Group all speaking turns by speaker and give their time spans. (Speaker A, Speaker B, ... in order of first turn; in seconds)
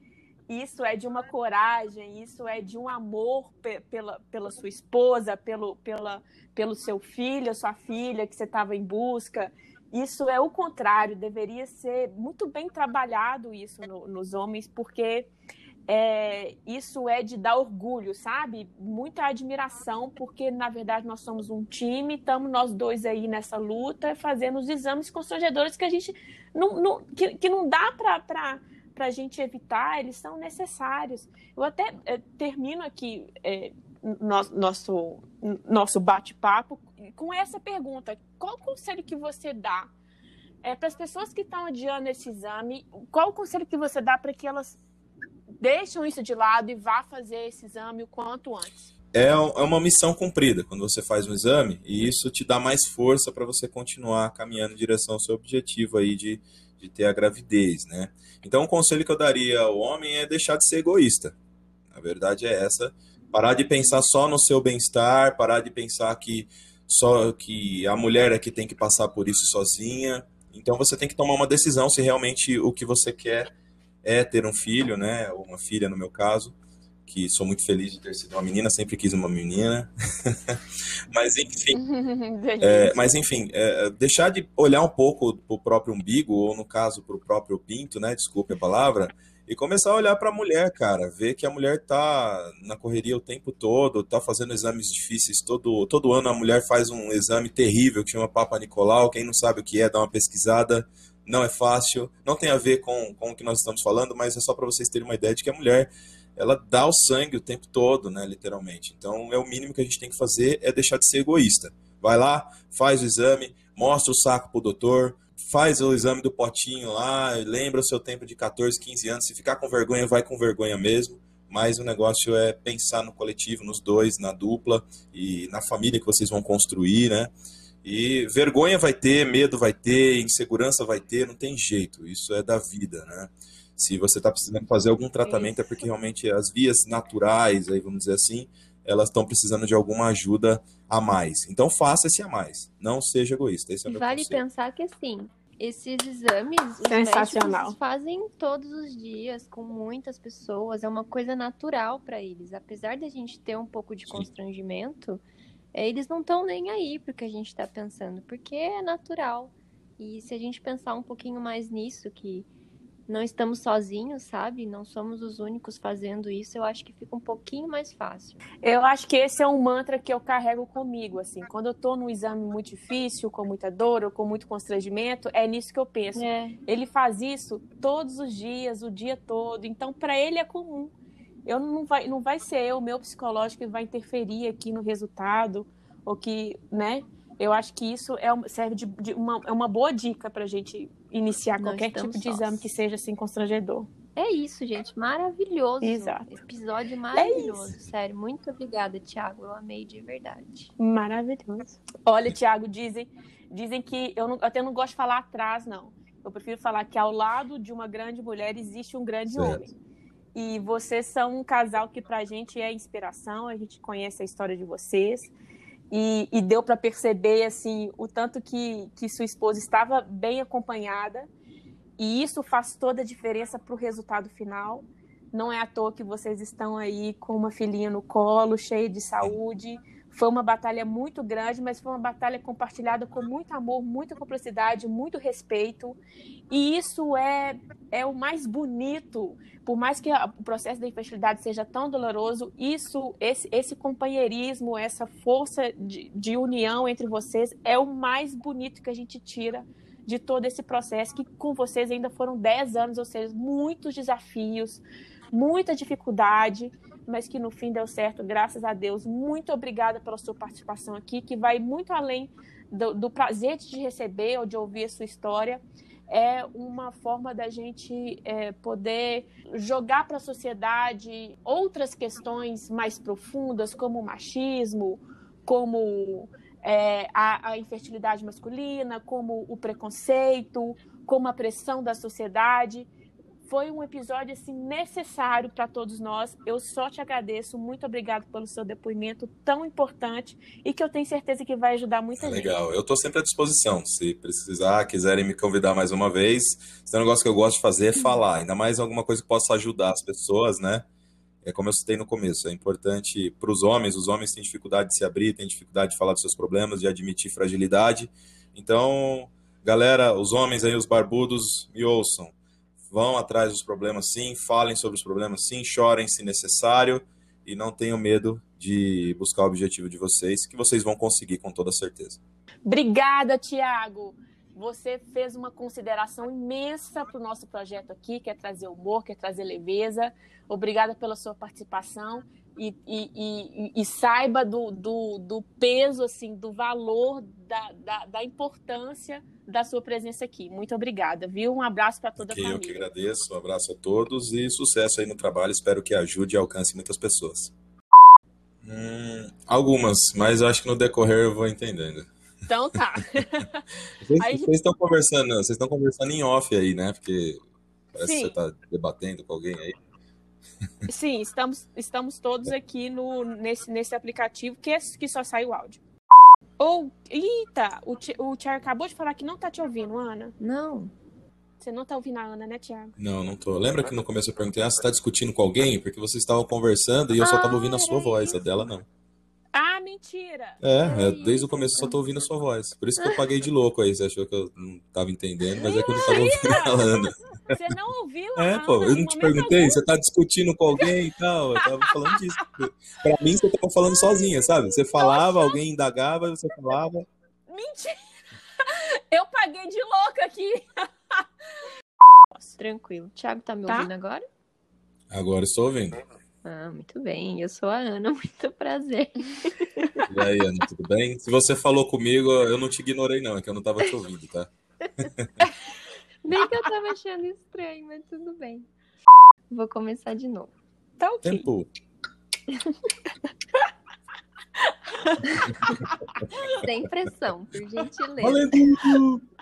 Speaker A: 0.5-15.3, 15.9-39.9, 40.6-44.8, 45.6-48.9, 81.7-83.1, 135.2-135.8, 146.8-147.8, 168.6-180.9, 181.4-193.9, 195.8-196.4, 197.1-197.7, 200.8-209.7, 210.3-215.3, 215.9-221.3, 222.0-236.0, 236.5-282.9, 283.4-292.5, 322.6-342.8, 352.5-354.5, 358.0-358.4, 360.9-365.8, 366.6-370.3, 371.6-372.9, 379.5-380.6, 385.6-389.8, 391.6-391.9, 394.9-395.6, 397.5-398.0, 398.6-401.6, 409.8-410.1, 421.0-421.4, 423.1-423.7, 424.6-426.6
Speaker B: 49.1-61.4, 61.9-73.5, 74.0-76.5, 77.0-80.6, 81.1-81.8, 82.6-127.3, 127.8-144.4, 209.3-209.6, 292.2-300.8, 301.4-312.3, 312.9-322.2, 342.2-347.5, 348.6-352.1, 354.0-357.4, 357.9-359.8, 373.0-378.8, 380.6-387.1, 388.4-397.1, 405.1-406.0, 410.1-415.4, 421.2-421.7, 428.2-429.2
Speaker C: 143.9-155.2, 155.7-162.5, 163.1-168.4, 176.1-176.6, 191.6-192.7, 194.2-200.7, 370.4-370.9, 377.2-378.4, 380.8-382.0, 385.6-386.2, 402.6-404.2, 406.4-409.8, 416.2-418.7, 419.5-420.5, 426.5-428.5